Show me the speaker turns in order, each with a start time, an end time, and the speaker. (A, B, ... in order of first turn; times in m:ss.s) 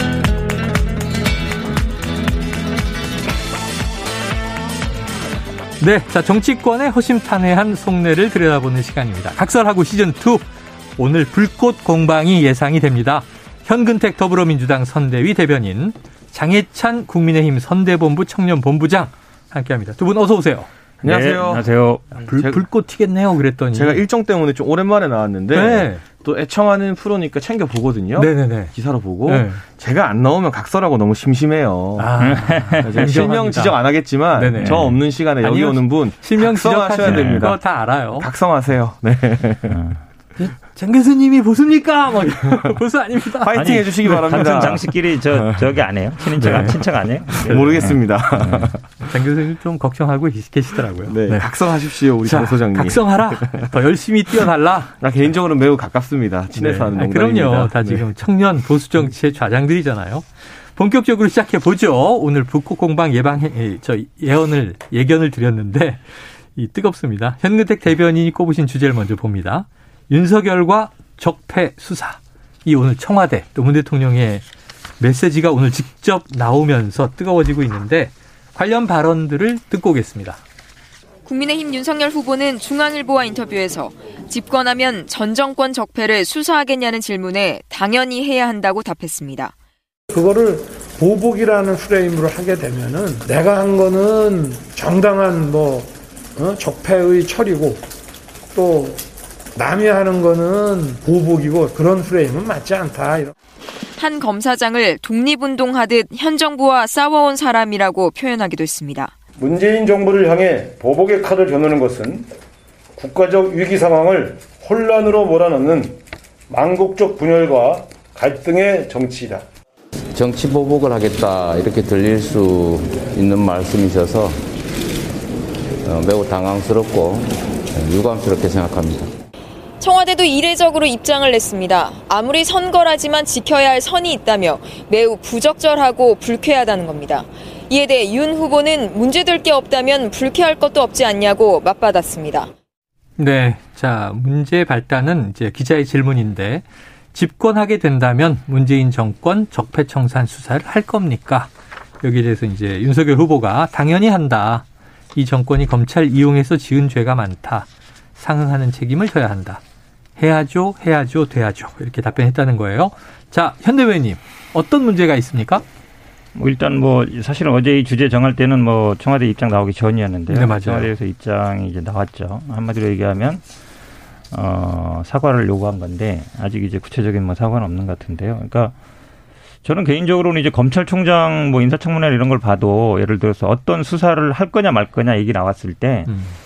0:05.8-0:10.4 A
0:11.0-0:20.7 A
0:21.0-0:21.7 B
0:21.0-0:22.2 C
0:22.2-0:24.0 A
0:22.3-0:22.7 B
0:23.7-0:32.3 B
0:25.5-0:26.0 A
0:28.2-0:28.7 A
0:29.3-0:29.6 A
0:32.0-0:33.8 A
0:32.2-0:33.1 C
0:32.8-0:39.8 B
0:34.3-0:38.3 A
0:34.6-0:34.9 C
0:37.0-0:37.5 C
0:39.7-0:40.0 C
0:40.4-0:44.6 A
0:43.4-0:45.6 B
0:43.6-0:48.7 C
0:46.4-0:46.8 A
0:47.3-0:48.0 A
0:47.4-0:48.8 B
0:49.0-0:55.0 A
0:51.0-0:53.7 B
0:55.0-0:58.1 B
0:56.6-1:14.4 A
1:15.0-1:20.4 A
1:21.3-1:29.5 D
1:30.1-1:37.8 E
1:38.5-1:39.0 E
1:39.6-1:43.3 E
1:44.0-1:49.1 D
1:49.4-1:52.3 F
1:53.0-1:56.0 F
1:56.5-1:59.4 F
2:00.1-2:04.4 G
2:05.8-2:09.1 G
2:09.8-2:22.5 D
2:23.2-2:39.6 A
2:40.2-2:45.6 A
2:46.4-2:53.4 C
2:50.3-2:50.9 A
2:54.3-2:58.7 C
2:59.6-3:06.1 C
3:06.1-3:06.4 A